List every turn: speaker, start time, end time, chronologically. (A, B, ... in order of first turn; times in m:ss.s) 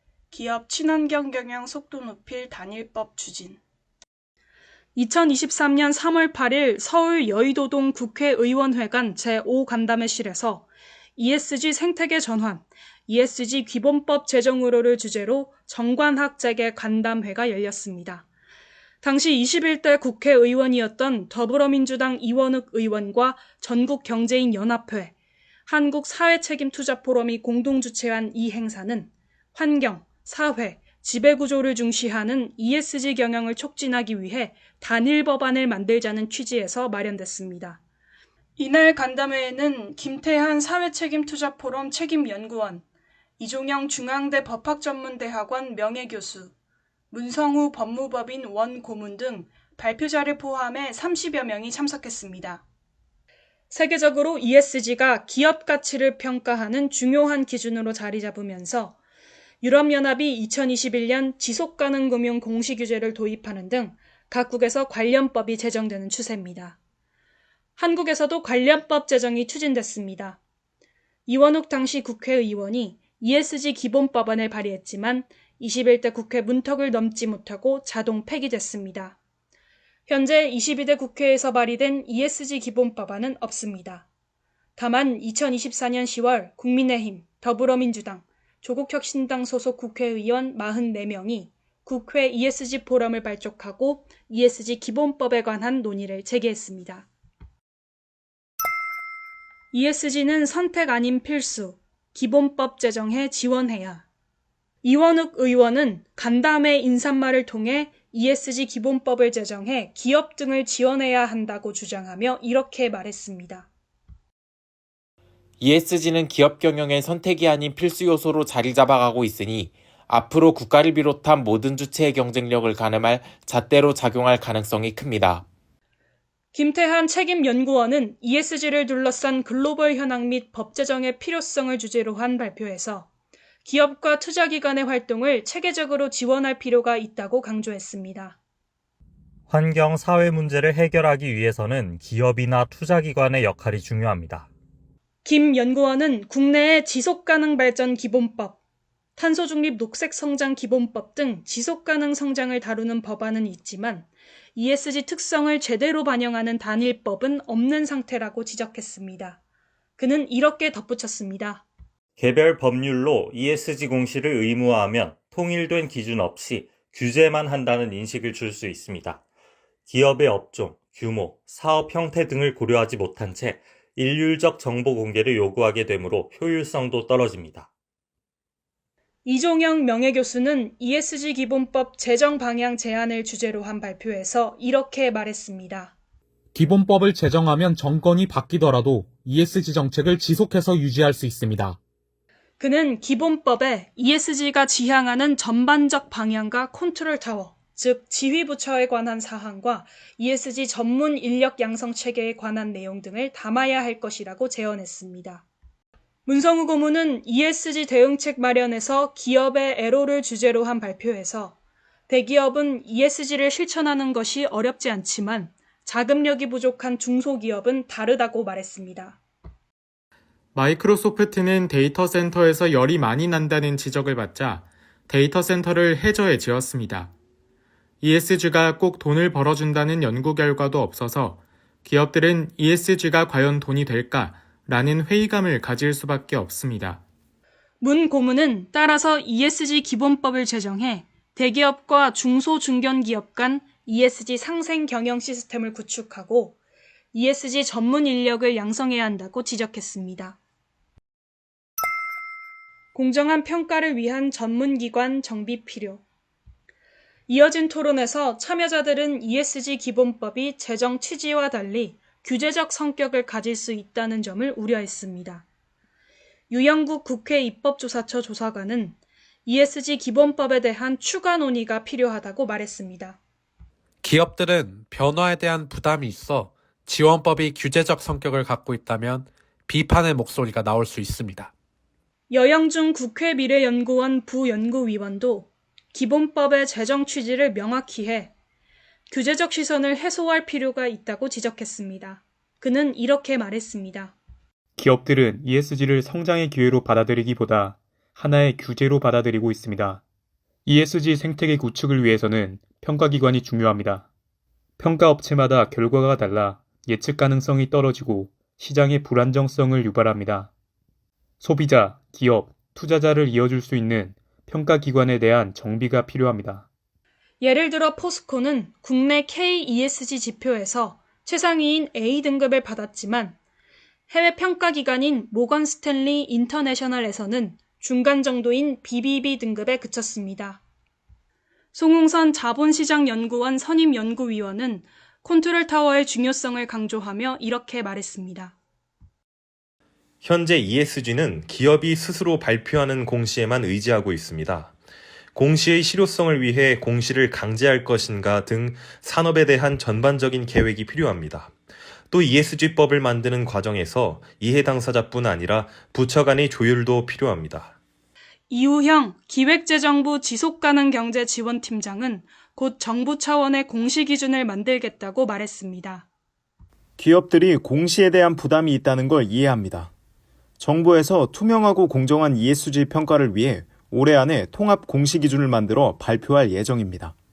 0:00.3-0:03.6 A
0:05.0-0:18.2 A
0:19.0-0:25.1 A
0:25.7-0:37.8 A
0:38.6-0:42.8 A
0:43.4-0:46.5 A
0:47.1-0:52.6 A
0:53.7-0:59.0 A
0:59.6-1:06.8 A
1:07.8-1:10.4 A
1:11.3-1:19.2 A
1:20.1-1:24.1 A
1:24.8-1:37.1 A
1:39.7-1:44.1 A
1:44.8-1:53.7 A
1:55.6-2:05.4 B
2:06.5-2:13.1 A
2:13.6-2:18.4 A
2:19.5-2:24.5 C
2:25.2-2:28.6 A
2:29.2-2:39.4 A
2:40.0-2:41.6 A
2:42.2-2:49.2 C
2:49.9-2:57.7 C
2:59.2-3:05.9 A
3:06.6-3:11.8 D
3:12.6-3:25.4 A
3:26.3-3:31.6 A
3:32.1-3:39.2 A
3:40.5-3:47.1 E
3:48.0-3:57.0 E
3:57.8-4:06.6 A
4:07.1-4:10.4 A
4:12.9-4:16.0 A
4:17.3-4:25.4 A
4:26.5-4:33.2 A
4:34.0-4:41.5 F
4:42.3-4:48.3 A
4:49.1-4:54.2 A
4:54.8-5:00.0 G
5:00.7-5:04.1 G
5:04.8-5:10.5 G
5:11.4-5:16.7 G
5:17.4-5:23.4 A
5:24.1-5:30.6 A
5:31.7-5:38.6 A
5:40.2-5:44.7 H
5:45.3-5:51.5 H
5:52.1-5:57.7 H
5:58.5-6:06.1 A
6:07.0-6:09.9 I
6:10.6-6:17.1 I